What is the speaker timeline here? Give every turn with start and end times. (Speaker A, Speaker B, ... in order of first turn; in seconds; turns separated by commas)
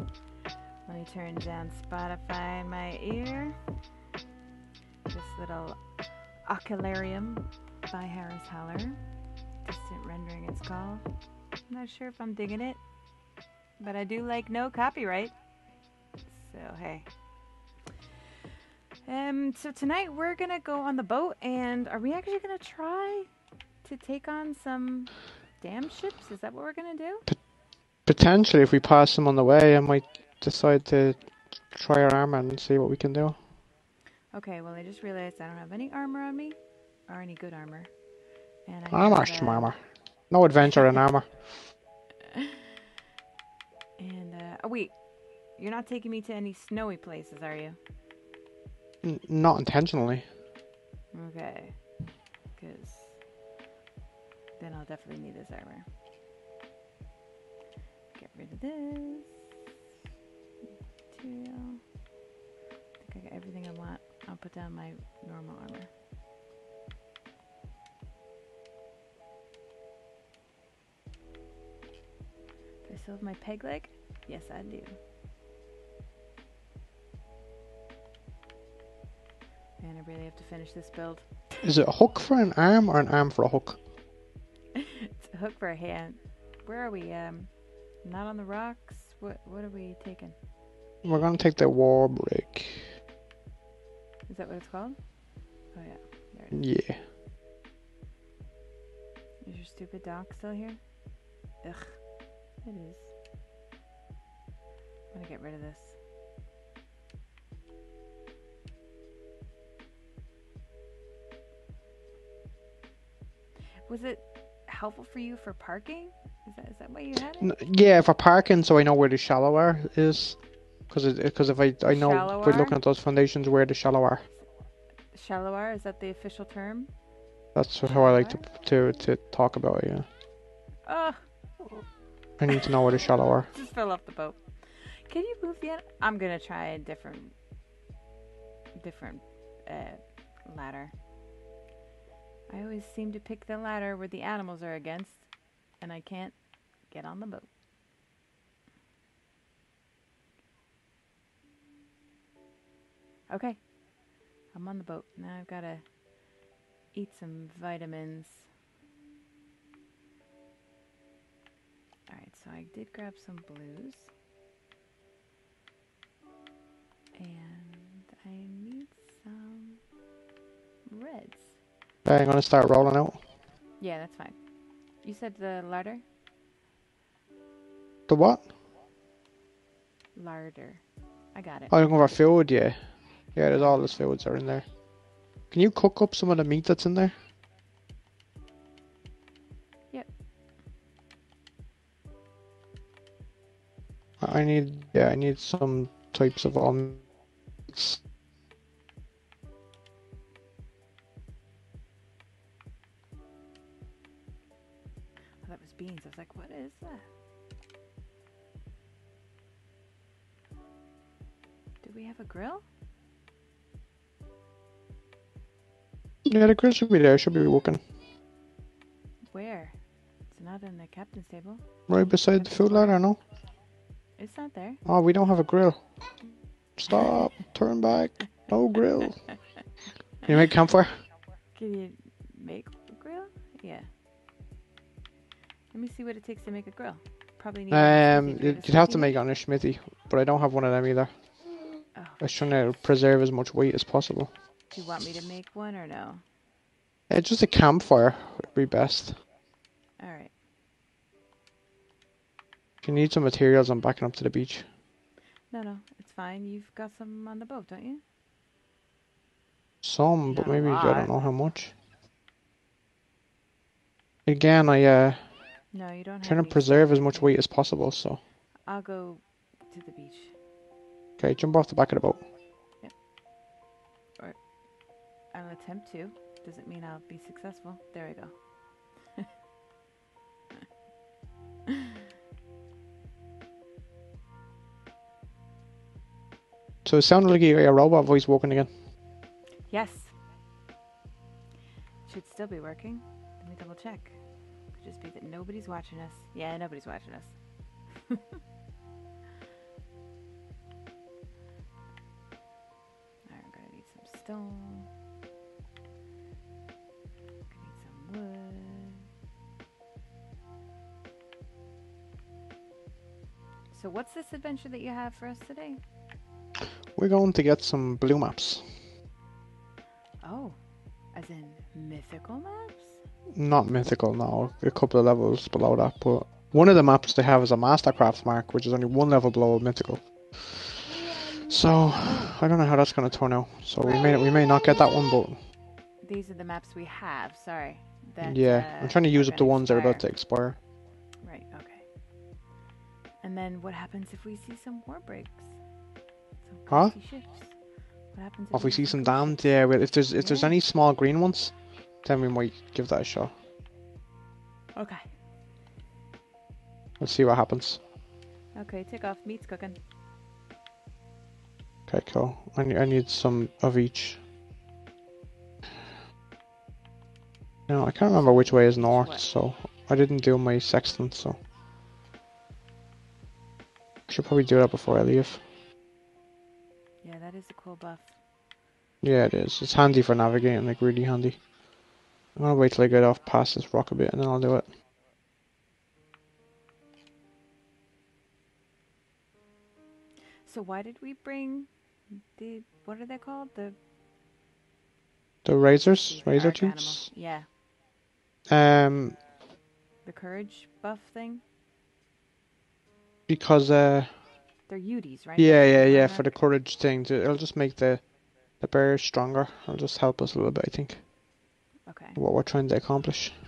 Speaker A: 0.9-3.6, Speaker A: 5.1-5.8, Speaker A: 6.5-9.0, Speaker A: 9.6-11.0, Speaker A: 11.7-12.8, Speaker A: 13.8-15.3, Speaker A: 16.3-17.1, Speaker A: 19.1-23.3, Speaker A: 23.8-27.2, Speaker B: 28.1-33.4, Speaker A: 34.3-37.9, Speaker A: 38.7-39.8, Speaker B: 38.9-41.4, Speaker A: 42.3-42.6, Speaker A: 44.0-44.9, Speaker A: 45.6-47.8, Speaker B: 49.0-50.3, Speaker A: 51.1-51.8, Speaker A: 52.6-53.2, Speaker A: 54.6-55.9, Speaker A: 58.1-59.4, Speaker A: 61.1-61.8, Speaker A: 63.0-65.9, Speaker A: 72.8-75.0, Speaker A: 79.8-81.2, Speaker B: 81.6-83.8, Speaker A: 84.8-87.5, Speaker A: 88.0-90.4, Speaker B: 91.0-93.0, Speaker A: 94.3-95.0, Speaker A: 95.7-96.6, Speaker B: 96.5-97.0, Speaker A: 99.4-100.8, Speaker A: 101.6-102.0, Speaker A: 102.6-103.1, Speaker A: 105.1-106.0, Speaker A: 113.9-117.5, Speaker B: 117.4-124.3, Speaker A: 121.9-122.8, Speaker A: 125.1-126.9, Speaker B: 127.5-130.1, Speaker A: 127.9-128.5, Speaker A: 130.9-131.2, Speaker B: 132.4-133.5, Speaker A: 133.5-137.3, Speaker A: 138.8-140.9, Speaker A: 142.5-147.5, Speaker A: 153.3-153.7, Speaker A: 154.5-155.9, Speaker A: 156.9-158.5, Speaker A: 162.1-164.1, Speaker A: 167.2-169.8, Speaker A: 170.9-171.6, Speaker B: 172.1-173.2, Speaker A: 173.8-174.4, Speaker A: 175.0-176.0, Speaker B: 178.1-178.5, Speaker A: 180.2-180.8, Speaker A: 181.3-181.8, Speaker B: 181.7-182.8, Speaker B: 183.3-184.7, Speaker A: 183.6-183.9, Speaker B: 185.5-187.2, Speaker B: 194.2-197.1, Speaker B: 197.7-198.0, Speaker A: 205.4-207.1, Speaker A: 211.8-212.6, Speaker B: 216.2-217.8, Speaker A: 219.3-219.8, Speaker A: 220.3-221.6, Speaker B: 221.9-223.2, Speaker A: 222.3-223.0, Speaker A: 224.2-224.8, Speaker B: 224.9-225.8, Speaker B: 226.8-229.3, Speaker B: 230.2-231.0, Speaker A: 231.6-233.9, Speaker A: 235.7-239.1, Speaker B: 237.7-241.1, Speaker A: 242.0-242.3, Speaker B: 242.2-244.3, Speaker A: 244.7-246.2, Speaker B: 247.1-249.2, Speaker A: 250.0-250.3, Speaker B: 252.8-254.7, Speaker A: 255.5-258.0, Speaker B: 259.8-261.7, Speaker A: 260.3-261.1, Speaker B: 264.3-265.3, Speaker A: 265.7-267.4, Speaker B: 266.2-268.2, Speaker A: 268.7-270.3, Speaker B: 271.2-272.2, Speaker A: 275.3-278.3, Speaker B: 286.9-288.7, Speaker A: 289.7-290.1, Speaker A: 292.1-294.2, Speaker A: 294.8-297.4, Speaker A: 303.3-304.9, Speaker A: 307.5-309.1, Speaker A: 313.7-315.8, Speaker B: 317.0-318.8, Speaker A: 320.2-320.6, Speaker A: 321.1-323.0, Speaker B: 323.4-335.4, Speaker A: 332.0-332.3, Speaker A: 333.8-334.2, Speaker A: 336.0-340.1, Speaker B: 338.2-340.6, Speaker A: 341.2-341.9, Speaker A: 343.2-345.5, Speaker A: 346.4-347.6, Speaker B: 346.7-346.9, Speaker A: 348.1-349.4, Speaker B: 348.5-353.3, Speaker A: 350.2-350.6, Speaker A: 354.8-355.0, Speaker B: 357.0-357.8, Speaker A: 358.6-359.8, Speaker B: 361.9-364.2, Speaker B: 367.7-371.4, Speaker A: 368.5-369.2, Speaker B: 374.1-375.4, Speaker A: 377.0-378.2, Speaker B: 379.0-381.4, Speaker B: 382.4-384.7, Speaker A: 390.5-391.7, Speaker A: 392.4-393.8, Speaker B: 395.4-397.1, Speaker A: 396.1-397.5, Speaker B: 398.5-399.2, Speaker A: 400.1-401.4, Speaker B: 403.3-404.1, Speaker A: 404.7-406.3, Speaker B: 405.4-408.0, Speaker B: 408.6-411.0, Speaker A: 411.9-412.2, Speaker B: 412.2-413.4